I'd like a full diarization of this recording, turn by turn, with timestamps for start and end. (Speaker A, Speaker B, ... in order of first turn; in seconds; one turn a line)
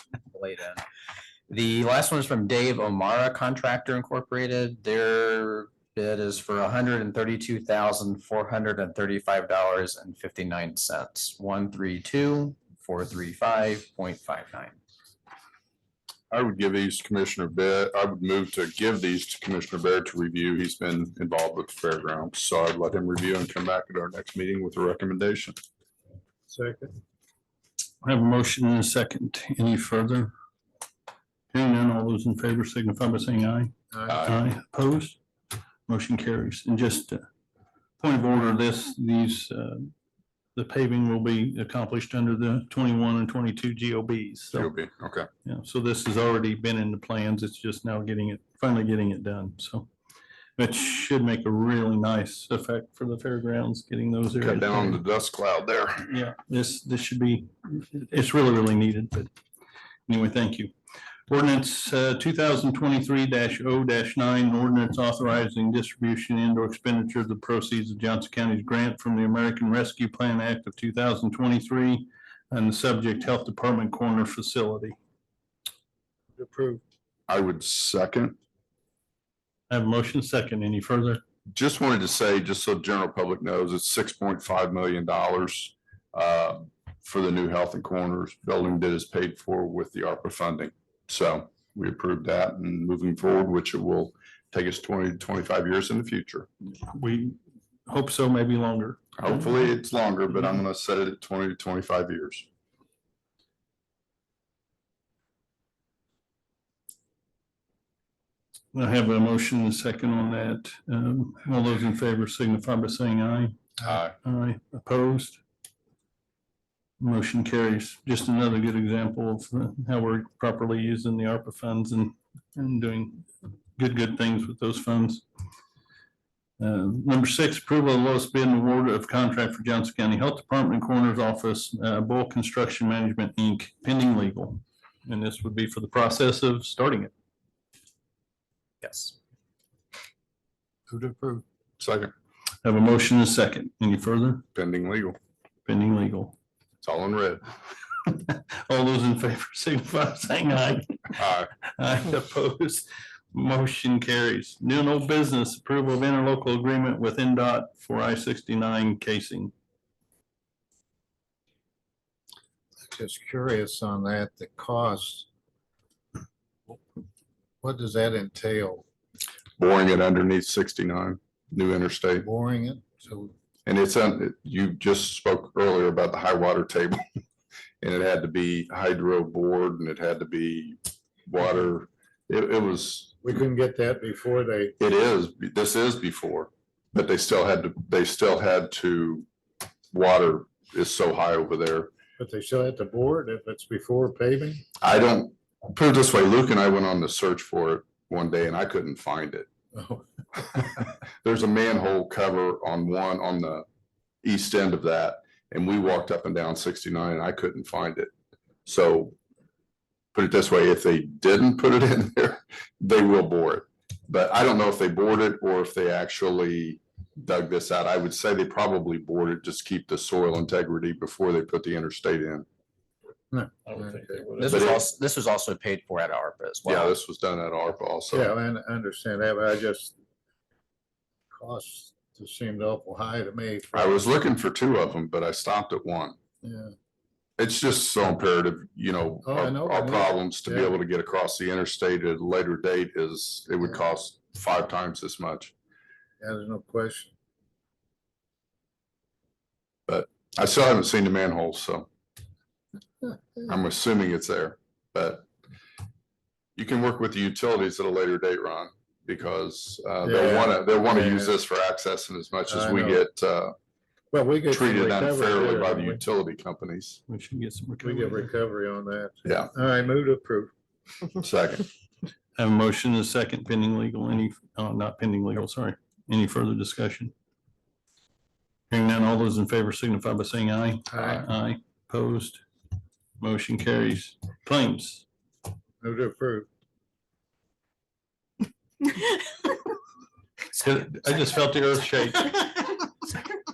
Speaker A: 0.3-0.8
Speaker A: 1.5-14.8
Speaker B: 16.3-25.6
Speaker C: 26.5-26.9
Speaker D: 28.0-30.3
Speaker D: 31.5-35.2
Speaker B: 34.1-34.4
Speaker D: 35.9-37.2
Speaker D: 38.0-39.9
Speaker D: 40.5-44.7
Speaker B: 44.5-45.3
Speaker D: 45.5-49.9
Speaker D: 50.6-55.0
Speaker B: 54.4-56.1
Speaker D: 56.0-59.3
Speaker D: 60.1-60.7
Speaker D: 61.3-75.0
Speaker C: 76.3-76.8
Speaker B: 77.3-78.4
Speaker D: 79.7-81.2
Speaker B: 81.5-96.5
Speaker D: 96.8-97.3
Speaker D: 97.9-99.3
Speaker B: 99.2-102.5
Speaker D: 108.7-115.4
Speaker B: 113.8-114.1
Speaker D: 117.0-125.2
Speaker D: 126.6-137.1
Speaker A: 138.8-139.1
Speaker C: 140.9-141.4
Speaker B: 141.8-142.1
Speaker D: 142.6-144.4
Speaker B: 144.5-145.2
Speaker D: 145.7-146.3
Speaker B: 146.8-147.4
Speaker D: 148.1-151.2
Speaker B: 151.2-151.5
Speaker D: 151.7-159.5
Speaker C: 162.8-165.3
Speaker C: 167.6-168.8
Speaker B: 169.6-172.2
Speaker C: 172.2-173.3
Speaker B: 173.7-177.0
Speaker B: 177.8-183.2
Speaker C: 183.2-184.8
Speaker B: 184.8-189.2
Speaker B: 189.9-191.9
Speaker C: 192.2-194.6
Speaker B: 194.8-199.5
Speaker C: 199.7-200.0
Speaker B: 200.5-203.7
Speaker B: 204.2-208.1
Speaker B: 208.7-209.1
Speaker B: 210.1-222.4
Speaker C: 223.3-224.4
Speaker D: 223.7-224.7
Speaker A: 224.4-226.9
Speaker B: 224.5-224.8
Speaker B: 226.7-228.3
Speaker C: 228.1-229.9
Speaker C: 231.3-234.1
Speaker B: 233.7-236.2
Speaker C: 236.4-236.7
Speaker B: 237.4-245.5
Speaker C: 239.2-240.7
Speaker C: 246.2-247.1
Speaker B: 249.9-251.9
Speaker B: 253.5-255.3
Speaker B: 256.6-263.5
Speaker C: 260.0-261.3
Speaker C: 262.5-263.0
Speaker C: 264.1-266.0
Speaker B: 264.5-267.0
Speaker D: 267.1-268.3
Speaker C: 267.8-270.5
Speaker B: 269.2-269.5
Speaker B: 271.2-271.6
Speaker D: 272.4-277.1
Speaker D: 278.7-282.4
Speaker C: 280.9-281.2
Speaker D: 283.2-285.0
Speaker C: 285.8-286.5
Speaker D: 290.5-292.6